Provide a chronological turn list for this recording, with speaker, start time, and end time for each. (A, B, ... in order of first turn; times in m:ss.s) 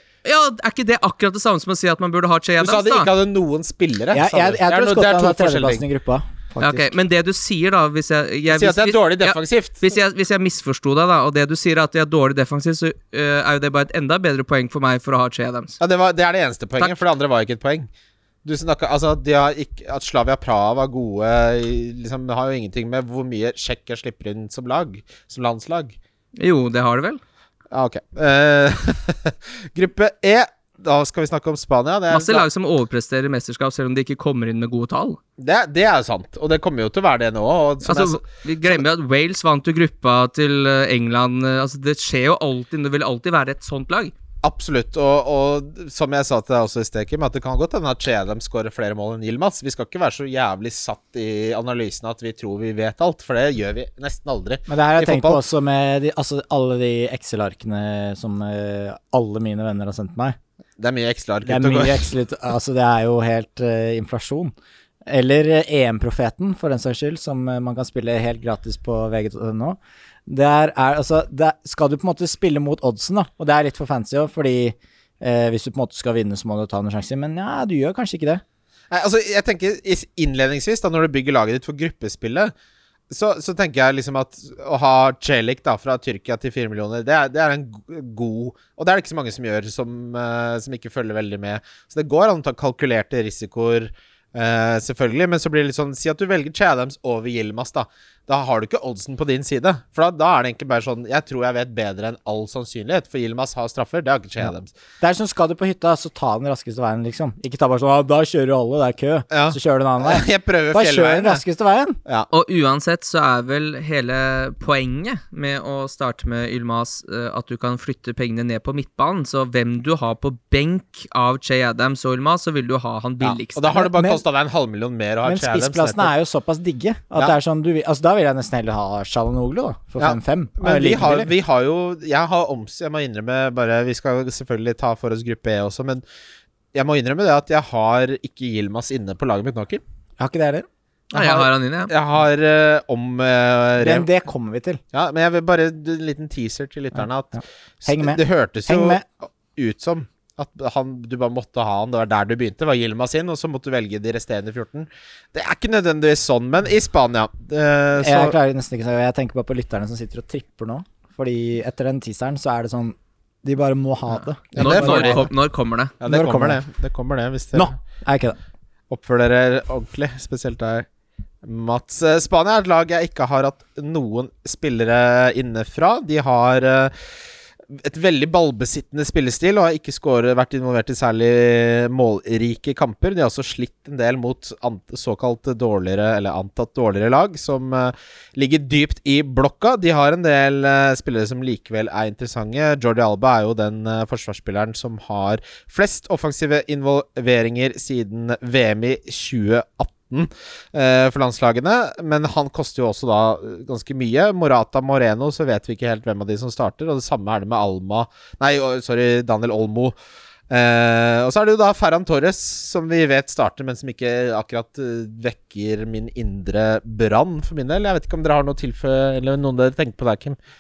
0:00.2-0:03.1 A
0:02.6-0:05.8 B
0:04.1-0:06.9 C
0:06.6-0:15.8 A
0:08.5-0:09.9 B
0:15.8-0:17.9 B
0:18.4-0:26.0 B
0:26.4-0:27.2 A
0:27.7-0:32.5 B
0:32.1-0:35.2 A
0:35.4-0:38.8 B
0:37.8-0:44.1 A
0:44.4-0:55.4 B
0:54.7-1:00.4 C
1:00.8-1:02.1 B
1:01.4-1:04.5 C
1:05.1-1:18.4 C
1:18.9-1:22.5 B
1:23.1-1:44.7 B
1:45.0-1:52.0 C
1:49.3-1:51.4 B
1:52.3-2:03.8 A
2:03.2-2:06.1 B
2:03.9-2:04.2 C
2:05.2-2:11.3 C
2:10.0-2:16.0 B
2:16.7-2:19.8 B
2:20.2-2:20.7 C
2:21.1-2:24.1 B
2:21.1-2:21.9 A
2:23.8-2:24.8 C
2:24.9-2:38.4 B
2:27.3-2:29.0 C
2:38.0-2:45.3 C
2:44.5-2:45.3 B
2:44.5-2:45.9 A
2:46.0-2:47.8 B
2:46.0-2:46.6 C
2:47.5-2:48.4 C
2:48.9-2:50.9 B
2:51.4-2:56.9 B
2:57.7-3:30.0 B
3:30.5-3:40.4 B